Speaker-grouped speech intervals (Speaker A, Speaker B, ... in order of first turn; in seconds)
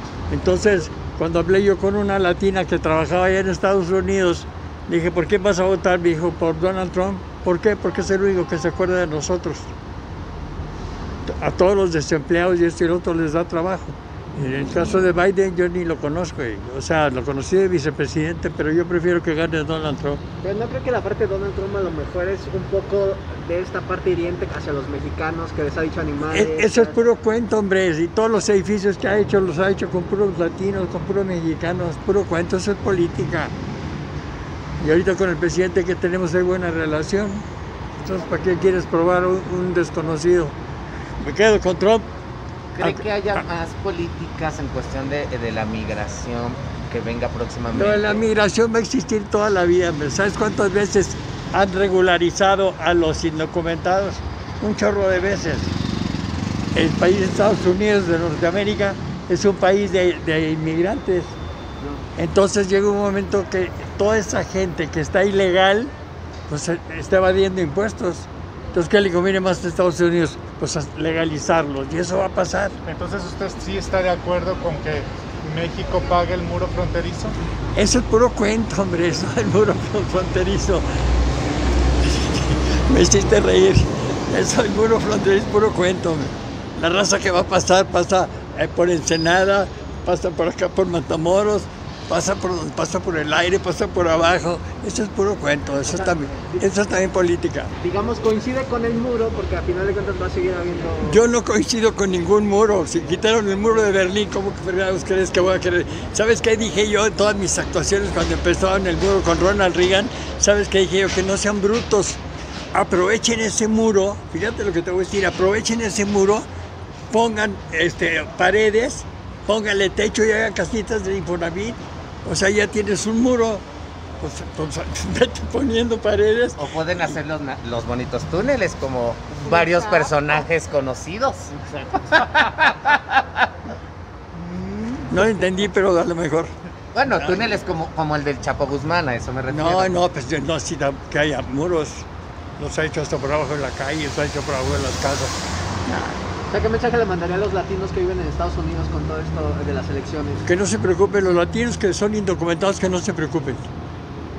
Speaker A: 0.3-9.7, 11.3-20.2, 26.3-33.5, 34.8-37.5, 38.0-40.5, 41.2-42.1, 42.8-43.1, 47.7-55.7, 56.7-61.4, 62.2-65.9, 66.5-72.8, 77.8-80.9, 82.0-97.7, 101.0-112.2, 112.7-116.5, 117.1-123.7, 124.2-127.2, 135.1-136.5, 137.1-137.4, 139.5-142.1, 142.6-146.2, 150.4-153.6
Speaker B: 20.4-27.0, 95.9-96.7, 97.8-101.2, 129.4-130.1, 146.5-150.5
Speaker C: 42.8-48.3, 126.6-133.4, 136.9-140.0
Speaker D: 72.8-77.4, 134.5-135.0